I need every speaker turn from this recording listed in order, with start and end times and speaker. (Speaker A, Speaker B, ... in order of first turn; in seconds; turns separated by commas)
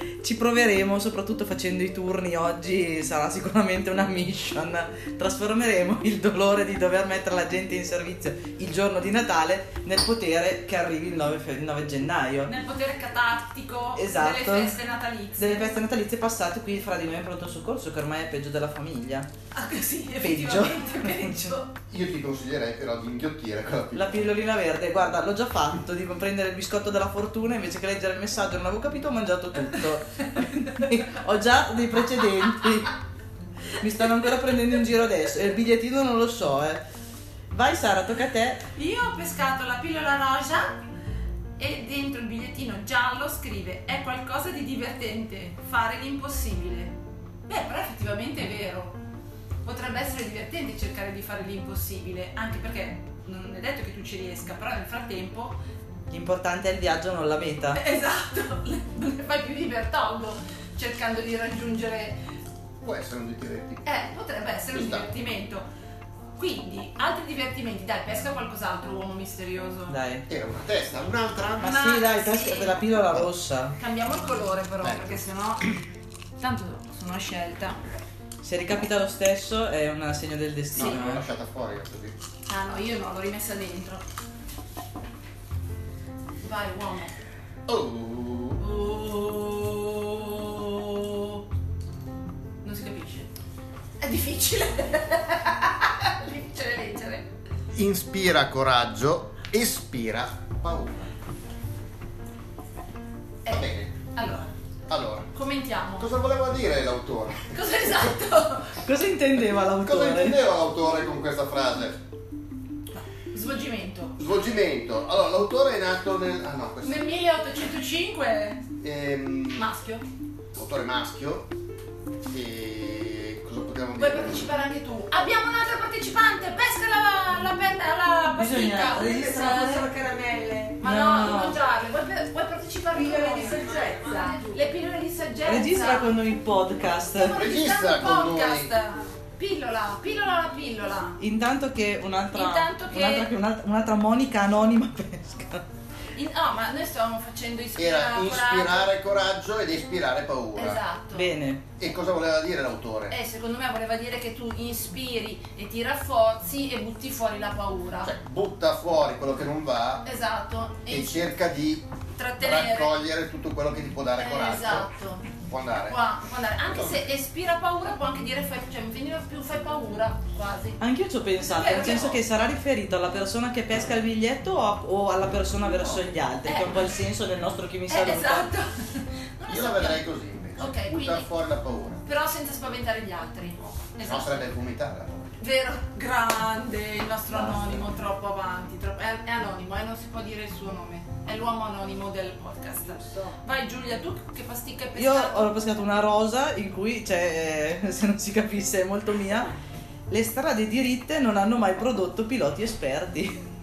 Speaker A: 0.2-12.5, Speaker B: 12.4-15.7, Speaker A: 14.0-14.8, Speaker A: 15.4-19.3, Speaker B: 19.5-21.7, Speaker A: 20.2-21.5, Speaker C: 21.9-24.1, Speaker A: 23.9-33.0, Speaker A: 33.8-36.8, Speaker A: 37.5-38.6, Speaker B: 38.8-40.8, Speaker B: 41.6-47.0, Speaker B: 47.5-49.0, Speaker B: 49.6-55.6, Speaker A: 56.1-57.8, Speaker B: 57.7-62.2, Speaker C: 62.8-63.9, Speaker B: 63.9-65.7, Speaker C: 64.7-65.1, Speaker B: 66.4-70.0, Speaker A: 69.9-70.3, Speaker C: 70.3-71.8, Speaker B: 71.6-72.9, Speaker A: 71.6-73.7, Speaker B: 73.8-75.8, Speaker C: 74.8-75.2, Speaker B: 76.4-77.8, Speaker A: 78.4-81.2, Speaker C: 80.8-82.2, Speaker B: 82.5-84.0, Speaker B: 86.4-87.2, Speaker C: 87.7-88.6, Speaker B: 88.6-91.5, Speaker B: 92.6-93.3, Speaker B: 94.0-97.3, Speaker C: 97.7-101.1, Speaker B: 103.5-104.5, Speaker C: 103.5-103.9, Speaker C: 104.9-105.3, Speaker B: 105.3-106.1, Speaker C: 106.0-107.5, Speaker B: 107.5-108.8, Speaker A: 108.8-110.4, Speaker C: 109.8-112.0, Speaker B: 112.9-114.2, Speaker C: 114.2-117.0, Speaker B: 116.8-118.6, Speaker C: 118.8-119.7, Speaker B: 119.6-120.0, Speaker C: 120.5-121.5, Speaker C: 122.3-124.5, Speaker B: 124.0-130.0, Speaker A: 128.3-129.9, Speaker D: 129.8-130.7, Speaker B: 130.7-136.2, Speaker A: 130.8-131.6, Speaker D: 133.0-134.4, Speaker A: 135.4-137.4, Speaker B: 137.1-141.2, Speaker C: 137.4-138.7, Speaker A: 141.2-145.6, Speaker B: 142.3-143.3, Speaker B: 146.1-148.9, Speaker C: 147.8-150.8, Speaker B: 150.6-151.3, Speaker A: 151.1-151.7, Speaker C: 151.8-153.1, Speaker B: 153.1-158.1, Speaker C: 158.0-160.1, Speaker B: 160.0-161.2, Speaker C: 160.9-161.9, Speaker B: 162.2-162.9, Speaker C: 162.4-164.9, Speaker B: 164.2-165.3, Speaker C: 165.4-166.0, Speaker B: 165.9-170.8, Speaker C: 166.7-167.0, Speaker A: 170.8-178.5, Speaker B: 171.4-172.2, Speaker B: 176.4-176.9, Speaker B: 177.9-180.0, Speaker C: 179.5-182.0, Speaker B: 180.6-181.3, Speaker B: 182.0-184.5, Speaker C: 184.0-185.4, Speaker B: 185.4-195.5, Speaker C: 187.4-187.6, Speaker A: 195.0-199.5, Speaker A: 200.1-203.4